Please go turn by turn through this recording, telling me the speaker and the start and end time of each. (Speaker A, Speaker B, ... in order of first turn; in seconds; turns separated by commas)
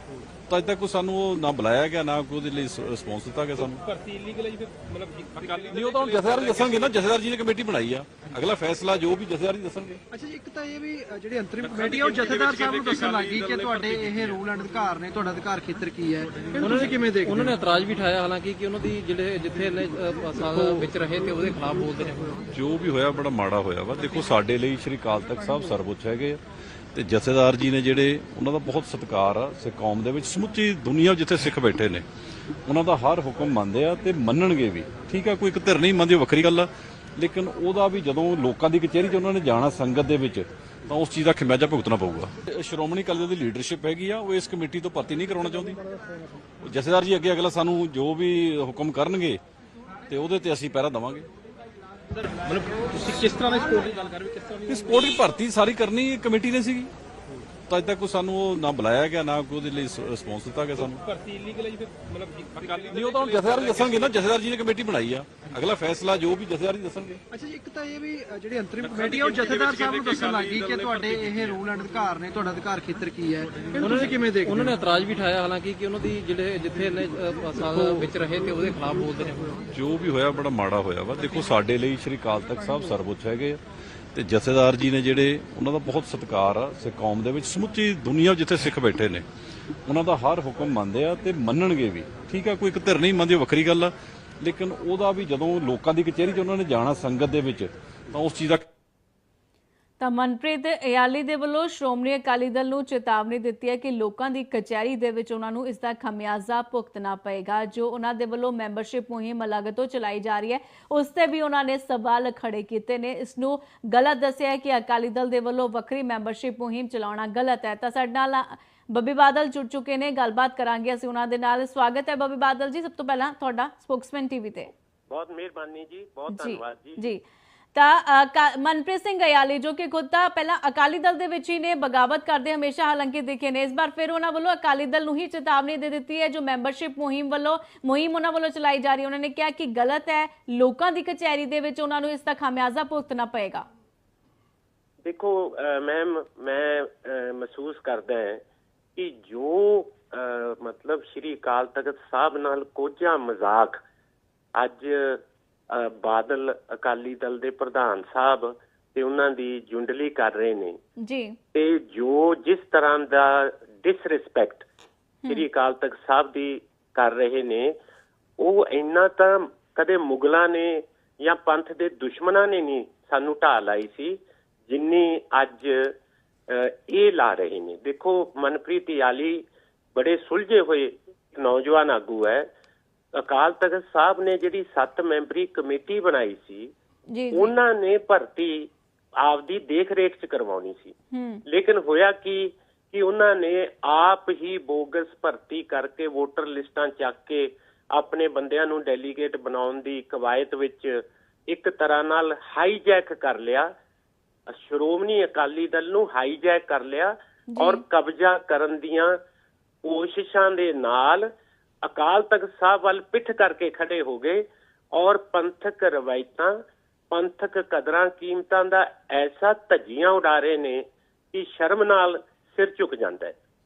Speaker A: 0.5-3.8, Speaker B: 3.9-6.0, Speaker A: 5.7-10.0, Speaker C: 10.1-17.5, Speaker D: 16.6-22.4, Speaker A: 22.5-26.4, Speaker A: 26.9-32.1, Speaker A: 32.7-45.8, Speaker A: 46.6-49.4, Speaker A: 50.1-51.3, Speaker B: 52.1-55.0, Speaker D: 52.5-53.1, Speaker A: 54.7-56.9, Speaker A: 57.7-61.0, Speaker B: 61.0-63.4, Speaker A: 62.9-67.2, Speaker C: 67.3-74.7, Speaker D: 73.8-79.6, Speaker A: 79.7-83.6, Speaker A: 84.1-89.2, Speaker A: 89.8-98.7, Speaker E: 100.0-124.7, Speaker F: 125.1-127.0, Speaker E: 126.3-127.2, Speaker E: 127.8-143.7, Speaker F: 145.0-148.4, Speaker F: 149.0-153.8, Speaker F: 154.6-160.8, Speaker E: 161.0-161.4, Speaker F: 161.5-164.7, Speaker F: 165.3-167.8, Speaker F: 168.4-175.9, Speaker F: 176.5-182.5, Speaker F: 183.1-186.7, Speaker E: 187.1-187.5, Speaker F: 187.3-191.0, Speaker E: 191.1-191.4, Speaker F: 191.5-203.7, Speaker F: 204.5-209.2, Speaker E: 207.5-207.8, Speaker F: 209.8-211.3, Speaker F: 211.8-223.4